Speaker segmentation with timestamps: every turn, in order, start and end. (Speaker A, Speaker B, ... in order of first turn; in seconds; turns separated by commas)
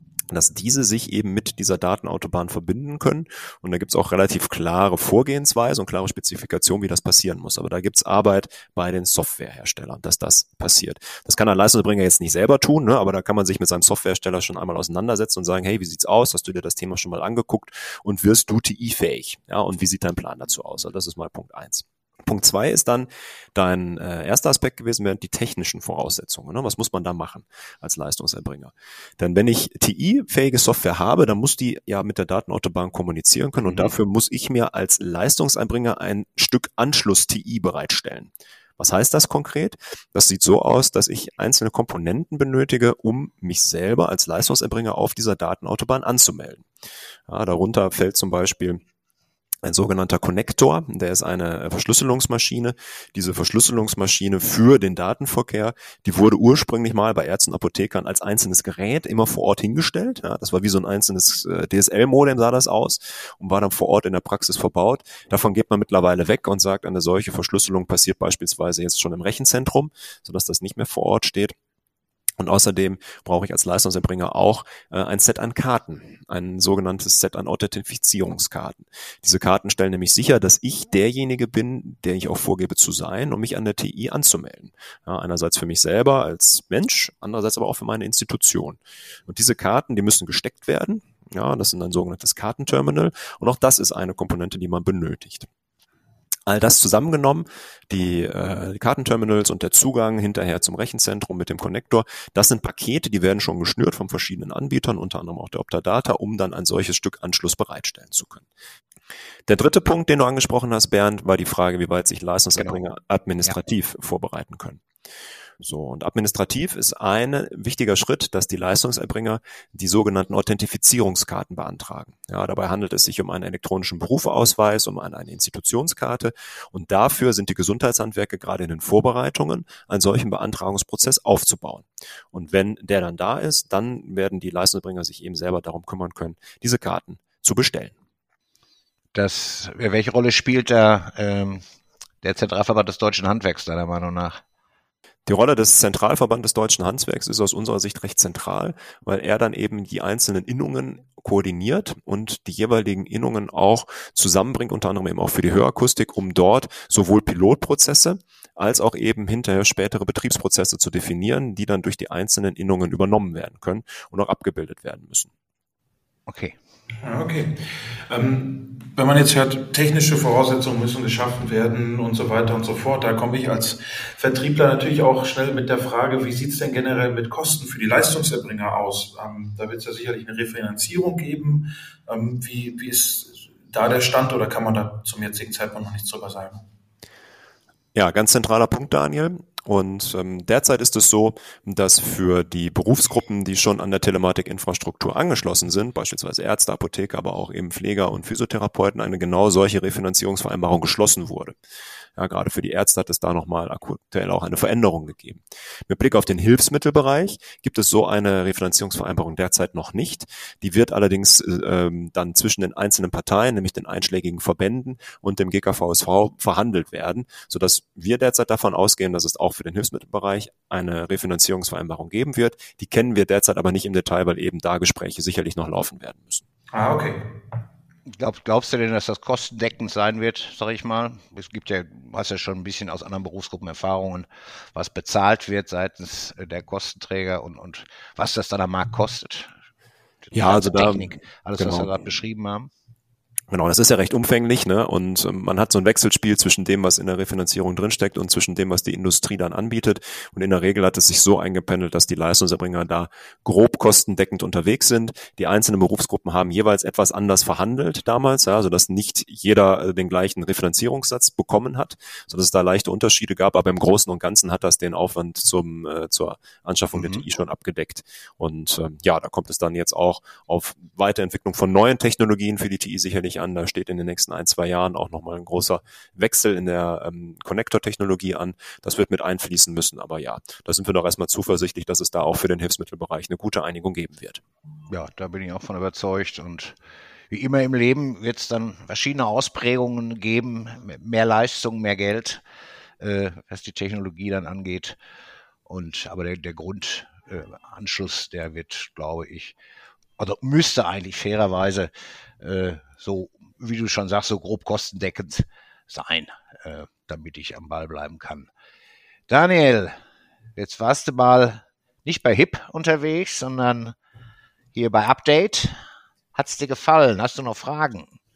Speaker A: 0.3-46.7, Speaker B: 33.7-33.9, Speaker A: 47.3-48.8, Speaker A: 49.6-71.5, Speaker A: 72.4-95.5, Speaker A: 96.5-108.5, Speaker A: 109.5-114.8, Speaker A: 115.6-137.9, Speaker B: 139.1-141.6, Speaker B: 142.2-144.4, Speaker A: 145.3-165.3, Speaker B: 166.3-166.6, Speaker C: 167.0-186.6, Speaker A: 187.9-201.6, Speaker A: 202.2-226.4, Speaker C: 226.7-227.2, Speaker B: 228.2-239.5, Speaker B: 240.2-242.7, Speaker A: 240.3-242.1, Speaker A: 243.5-284.4, Speaker B: 266.9-267.2, Speaker B: 284.9-286.8, Speaker B: 287.3-292.4, Speaker B: 293.0-295.0, Speaker B: 295.7-299.6, Speaker B: 300.2-308.5, Speaker B: 309.3-310.0, Speaker B: 310.6-314.0, Speaker B: 314.7-315.8, Speaker B: 316.4-318.1